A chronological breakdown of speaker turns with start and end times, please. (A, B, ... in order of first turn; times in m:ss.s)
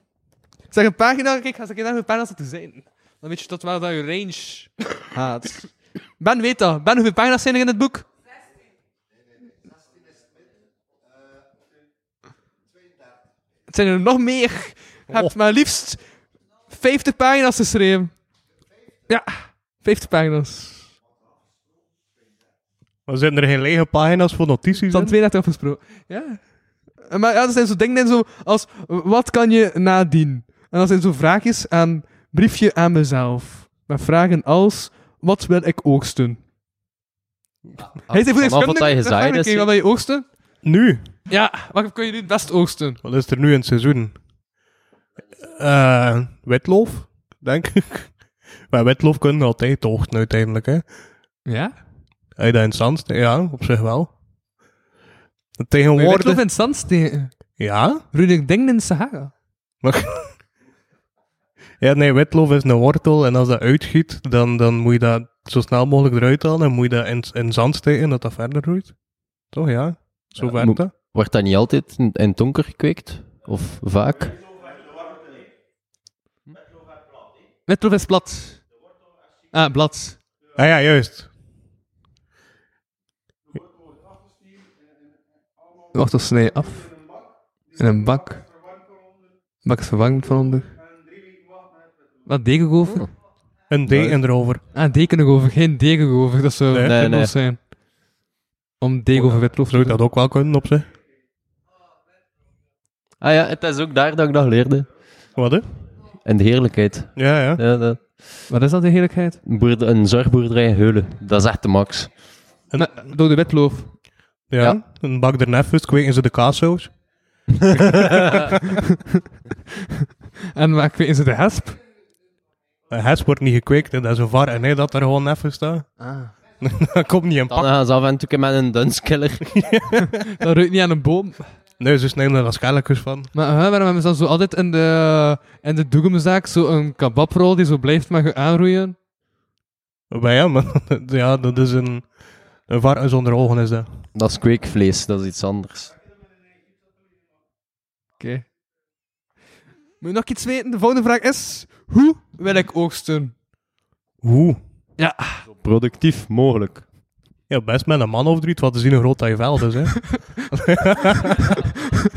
0:00.7-0:08.1 A
0:13.7-0:16.0 A
0:16.7-0:18.1 A
0:19.1-0:20.9 A
0:23.1-0:25.1 B
0:24.9-0:26.4 A
0:27.0-0:36.4 A
0:37.8-0:39.7 C
0:38.1-0:40.3 A
0:40.6-0:41.1 B
0:41.3-0:43.0 A
0:43.0-0:44.2 B
0:45.5-0:50.9 B
0:51.5-0:51.8 A
0:52.4-0:54.1 B
0:55.6-0:56.4 B
0:56.0-0:57.6 A
0:57.6-0:58.0 B
0:58.1-0:59.3 A
0:59.8-1:00.3 B
1:01.8-1:09.0 B
1:09.5-1:10.9 B
1:10.4-1:14.4 C
1:17.7-1:18.6 A
1:19.5-1:20.2 A
1:20.6-1:21.3 B
1:25.9-1:27.0 A
1:27.8-1:28.4 A
1:29.6-1:30.7 A
1:32.3-1:33.1 A
1:33.7-1:34.6 B
1:33.9-1:34.2 C
1:34.8-1:37.6 A
1:36.8-1:37.3 C
1:38.8-1:40.0 A
1:39.2-1:40.9 B
1:43.2-1:44.9 C
1:45.4-1:45.6 B
1:46.2-1:48.4 C
1:47.2-1:47.6 B
1:48.5-1:49.4 A
1:49.4-1:52.1 C
1:52.7-1:53.0 B
1:52.8-1:53.9 A
1:54.5-1:56.9 B
1:57.6-1:58.4 C
1:57.9-1:58.6 B
2:00.5-2:01.8 A
2:02.9-2:05.9 B
2:06.0-2:06.3 A
2:06.6-2:07.7 B
2:07.5-2:09.6 C
2:09.5-2:10.1 B
2:10.2-2:11.5 A
2:11.8-2:13.3 B
2:13.3-2:19.0 A
2:20.1-2:22.2 B
2:22.7-2:23.9 B
2:24.1-2:25.9 C
2:28.2-2:28.5 A
2:30.0-2:33.3 A
2:34.2-2:34.6 B
2:35.0-2:35.4 A
2:35.6-2:36.9 C
2:37.5-2:41.6 B